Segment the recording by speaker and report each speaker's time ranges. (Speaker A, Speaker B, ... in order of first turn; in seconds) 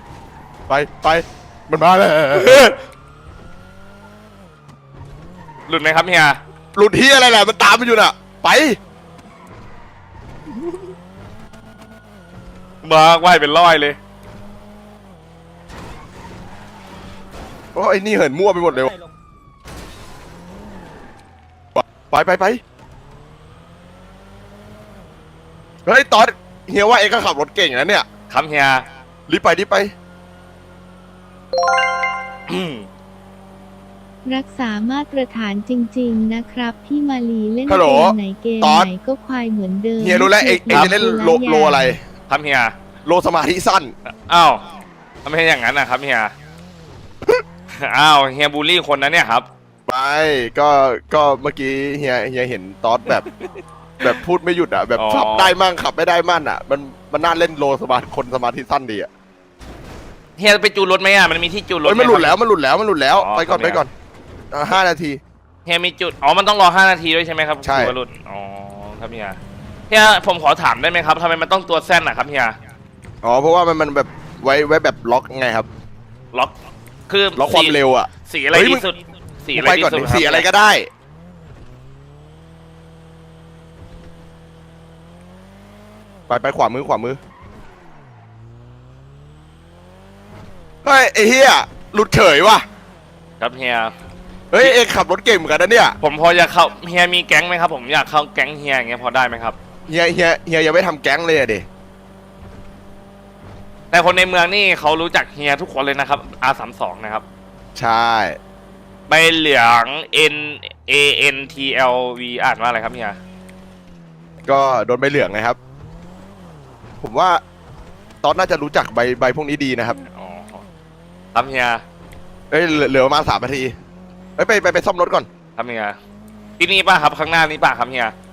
Speaker A: 0.7-2.7, 6.7-8.8, 17.7-18.9, 21.7-22.6, 25.9-28.1, 29.3-29.9, 37.7-38.9, 40.0-42.0, 43.0-43.9, 49.9-53.2, 54.0-59.1, 61.8-63.9, 64.5-65.2, 67.6-67.9, 73.2-75.7, 77.3-78.8, 79.5-80.9, 86.3-87.2, 90.8-92.7, 94.5-96.0, 99.9-101.7, 107.7-108.4, 114.5-115.6, 117.0-117.4, 118.2-120.0, 122.5-123.7, 124.4-125.3
Speaker B: 2.3-2.8, 5.7-6.4, 12.8-14.0, 28.3-28.8, 32.5-32.9, 40.7-40.9, 42.3-42.7, 44.1-44.6, 45.2-46.3, 47.7-49.5, 55.0-55.5, 60.4-62.4, 63.1-63.8, 65.6-69.4, 69.9-72.6, 77.1-80.5, 93.4-93.9, 96.0-99.5, 103.9-107.2, 109.1-113.2, 120.1-120.6, 121.3-121.8, 125.5-126.0, 126.6-128.1
Speaker C: 34.2-42.0